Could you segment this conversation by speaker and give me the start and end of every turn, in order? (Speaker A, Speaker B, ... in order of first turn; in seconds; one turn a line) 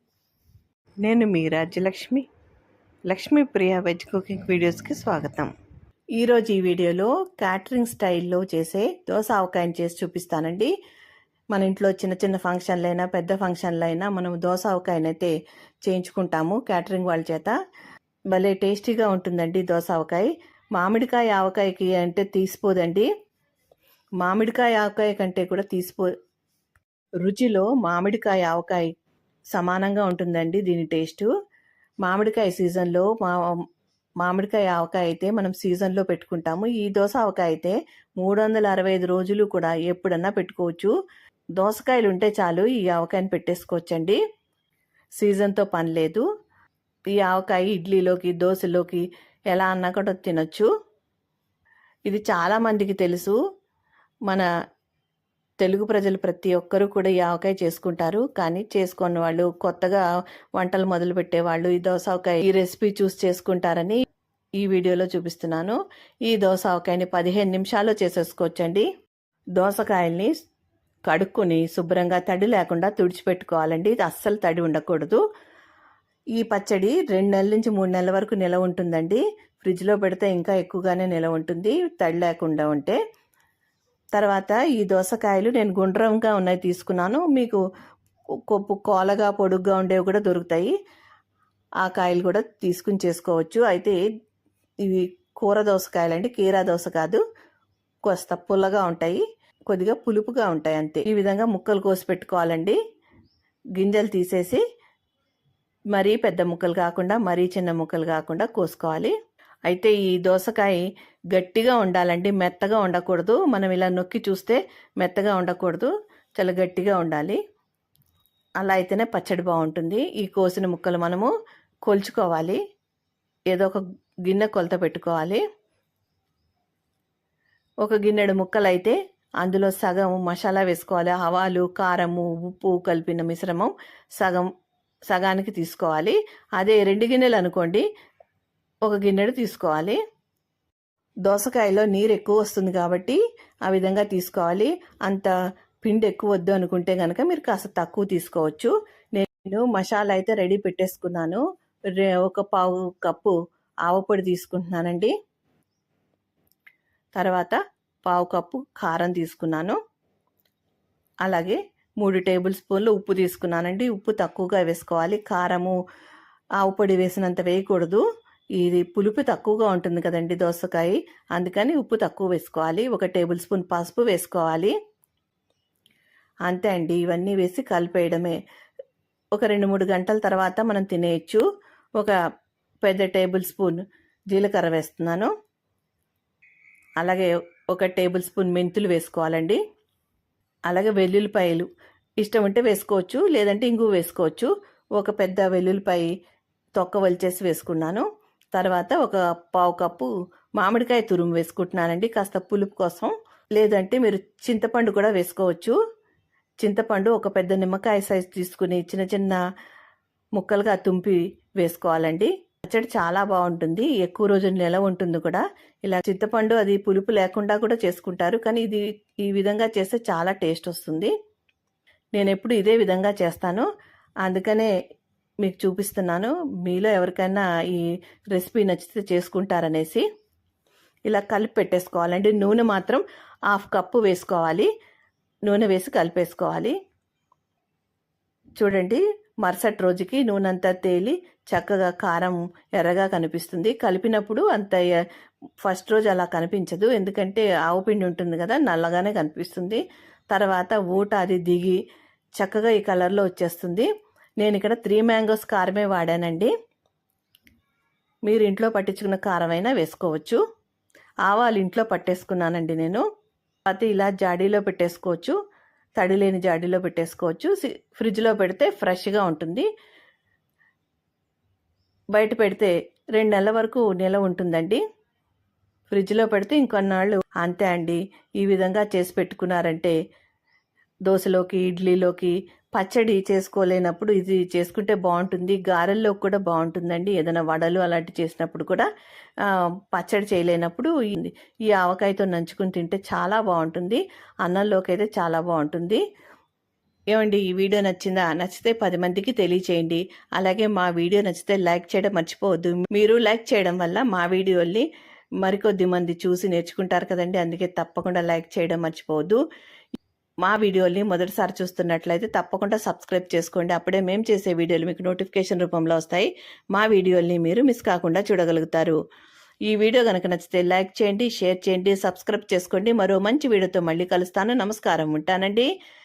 Speaker A: 1.0-2.2
Speaker A: 3.1-5.5
Speaker A: 6.2-10.7
Speaker A: 11.5-15.3
Speaker A: 15.8-17.5
Speaker A: 18.3-23.1
Speaker A: 24.2-26.1
Speaker A: 27.2-28.9
Speaker A: 29.5-31.3
Speaker A: 32.0-33.6
Speaker A: 34.2-40.9
Speaker A: 41.6-44.2
Speaker A: 45.2-46.2
Speaker A: 47.1-50.7
Speaker A: 52.1-53.4
Speaker A: 55.6-60.0
Speaker A: 60.6-64.0
Speaker A: 64.6-68.9
Speaker A: 69.6-70.3
Speaker A: 71.1-75.2
Speaker A: 76.4-83.0
Speaker A: 84.1-87.6
Speaker A: 88.5-90.7
Speaker A: 91.8-94.0
Speaker A: 94.8-97.2
Speaker A: 98.0-102.8
Speaker A: 103.8-104.6
Speaker A: 105.9-109.1
Speaker A: 109.7-117.4
Speaker A: 118.6-121.3
Speaker A: 121.9-122.6
Speaker A: 123.5-125.4
Speaker A: 127.8-134.5
Speaker A: 135.1-137.8
Speaker A: 138.8-140.0
Speaker A: 141.2-151.4
Speaker A: 152.0-153.3
Speaker A: 153.9-155.1
Speaker A: 157.2-159.8
Speaker A: 161.2-165.8
Speaker A: 166.6-168.0
Speaker A: 168.6-174.7
Speaker A: 176.5-178.4
Speaker A: 179.3-181.4
Speaker A: 182.8-183.8
Speaker A: 184.3-185.3
Speaker A: 187.0-189.6
Speaker A: 190.7-191.7
Speaker A: 192.2-196.1
Speaker A: 196.8-205.8
Speaker A: 206.6-209.4
Speaker A: 210.4-221.1
Speaker A: 222.1-223.7
Speaker A: 224.2-224.7
Speaker A: 225.4-230.0
Speaker A: 231.1-234.7
Speaker A: 235.4-236.8
Speaker A: 238.6-244.9
Speaker A: 245.6-251.8
Speaker A: 252.4-253.9
Speaker A: 254.4-256.5
Speaker A: 258.3-260.4
Speaker A: 261.3-263.0
Speaker A: 263.7-265.4
Speaker A: 266.0-269.7
Speaker A: 272.1-274.8
Speaker A: 275.9-280.0
Speaker A: 281.1-288.9
Speaker A: 289.4-296.0
Speaker A: 297.1-304.9
Speaker A: 305.4-309.4
Speaker A: 310.4-319.0
Speaker A: 319.7-325.7